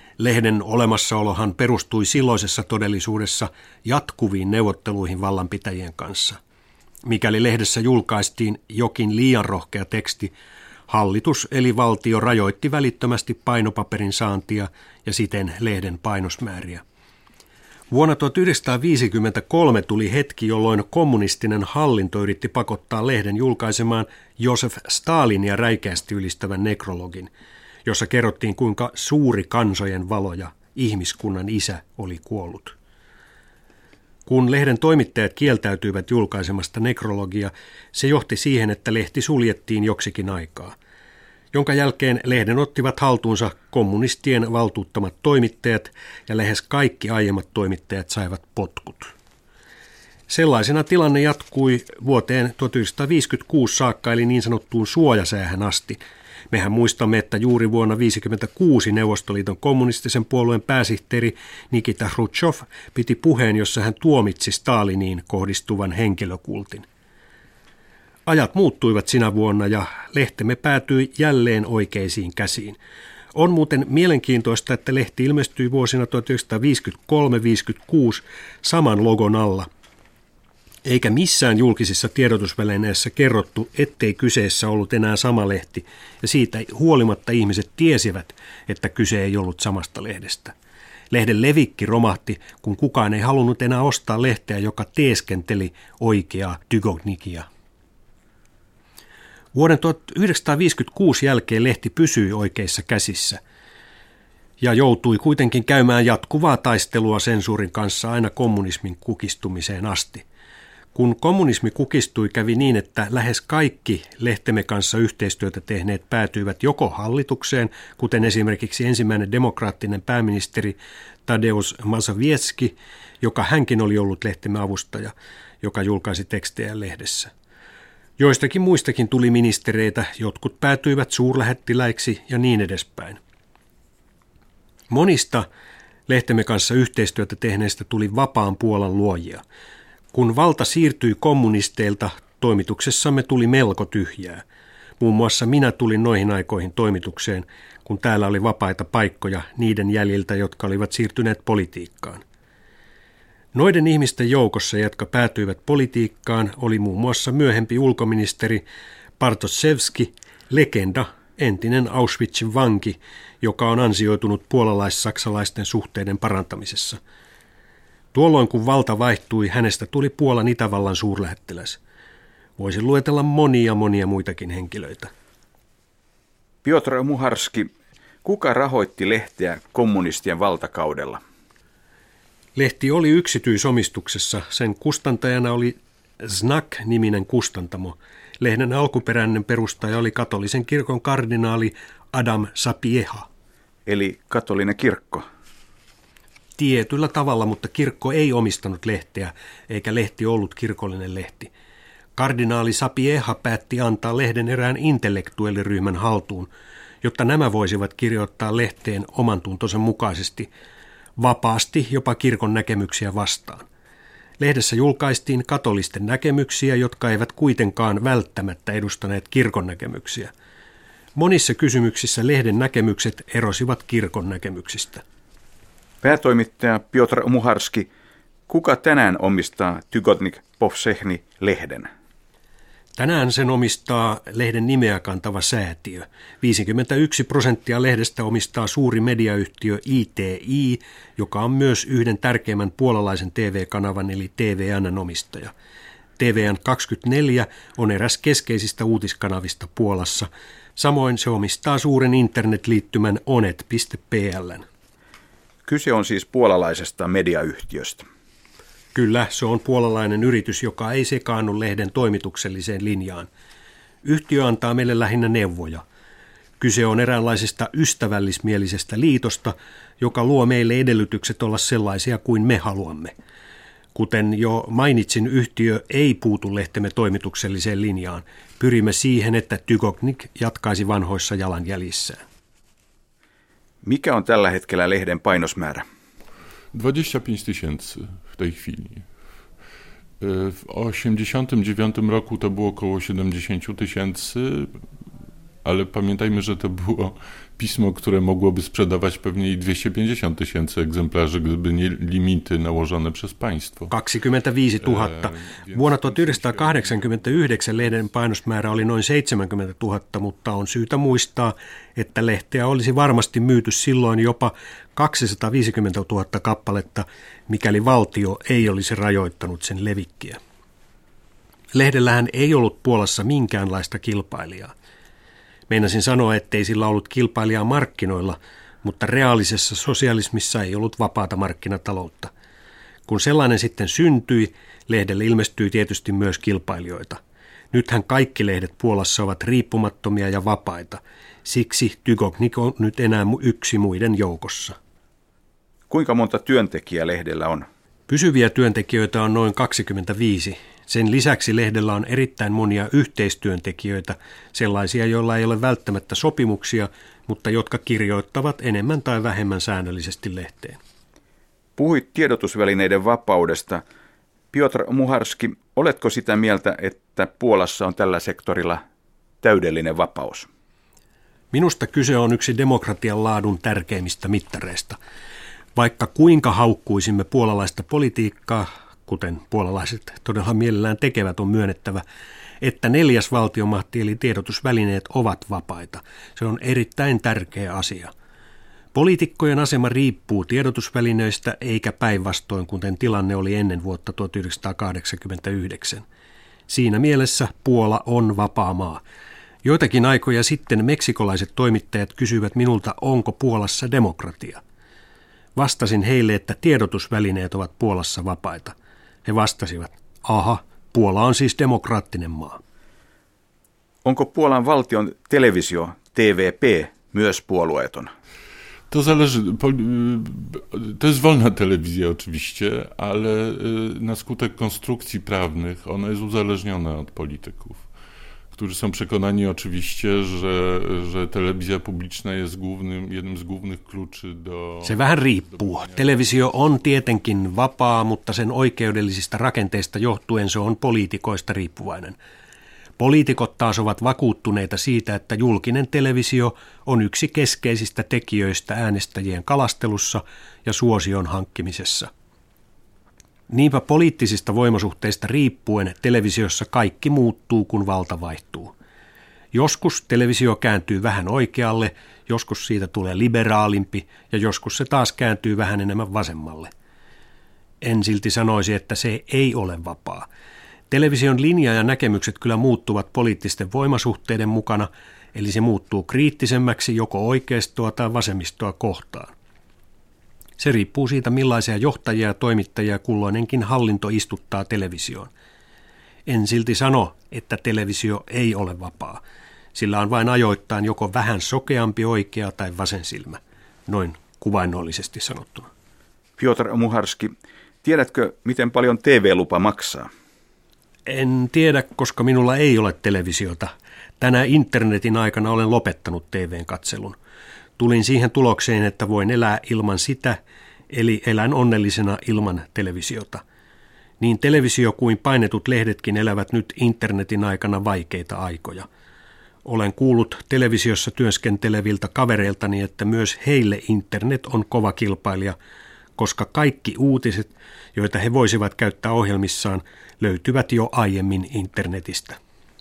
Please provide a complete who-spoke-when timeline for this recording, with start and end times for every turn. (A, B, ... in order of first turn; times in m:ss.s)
0:00.2-0:06.4 A
0:07.0-0:10.3 A
0:10.9-0:16.8 A
0:17.9-0:27.3 A
0:27.9-0:32.8 A
0:34.2-0:40.8 A
0:41.5-0:49.1 A
0:50.3-0:56.0 A
0:56.5-1:06.8 A
1:08.2-1:12.8 A
1:13.3-1:19.7 A
1:20.8-1:30.5 A
1:31.1-1:37.5 A
1:39.5-1:43.4 A
1:44.6-1:50.2 A
1:50.9-2:07.3 A
2:08.2-2:13.2 A
2:14.9-2:15.5 A
2:16.1-2:19.4 A
2:20.1-2:24.4 A
2:25.0-2:32.2 A
2:33.5-2:38.6 A
2:39.2-2:47.0 A
2:48.1-2:51.8 A
2:52.6-2:55.1 A
2:56.6-2:57.7 B
2:58.2-3:01.2 B
3:02.6-3:13.3 A
3:13.9-3:15.2 B
3:16.6-3:21.5 A
3:22.2-3:26.5 A
3:27.0-3:30.5 A
3:31.2-3:33.6 A
3:34.4-3:40.3 A
3:41.1-3:45.0 A
3:46.0-3:47.9 B
3:48.5-3:51.9 B
3:53.0-4:05.5 A
4:06.2-4:14.6 A
4:15.6-4:18.1 B
4:18.9-4:23.3 A
4:24.0-4:25.8 A
4:26.6-4:33.1 A
4:33.9-4:42.2 A
4:43.8-4:45.8 B
4:46.7-4:49.1 C
4:50.2-4:54.9 C
4:55.6-5:03.9 C
5:03.9-5:20.4 A
5:04.8-5:07.4 C
5:21.7-5:24.7 A
5:25.7-5:32.3 A
5:33.1-5:37.2 A
5:37.7-5:44.8 A
5:45.9-5:47.6 B
5:48.1-6:00.8 A
6:01.8-6:03.8 B
6:04.5-6:08.8 B
6:09.4-6:10.5 B
6:11.5-6:15.0 A
6:15.8-6:22.0 A
6:22.6-6:28.1 A
6:28.9-6:36.0 A
6:36.7-6:39.0 A
6:39.6-6:44.6 A
6:45.6-6:52.6 A
6:54.0-6:58.1 B
6:58.9-7:07.9 C
7:08.5-7:16.4 C
7:14.8-7:22.2 A
7:23.0-7:32.1 A
7:33.5-7:38.7 A
7:39.5-7:46.7 A
7:47.8-7:50.3 A
7:50.9-7:59.3 A
8:00.6-8:05.3 A
8:06.3-8:09.2 A
8:09.7-8:15.7 A
8:16.4-8:17.3 B
8:17.8-8:20.1 B
8:21.1-8:27.2 A
8:27.8-8:30.4 A
8:30.9-8:33.4 A
8:34.2-8:38.9 A
8:39.6-8:45.6 A
8:46.2-8:52.4 A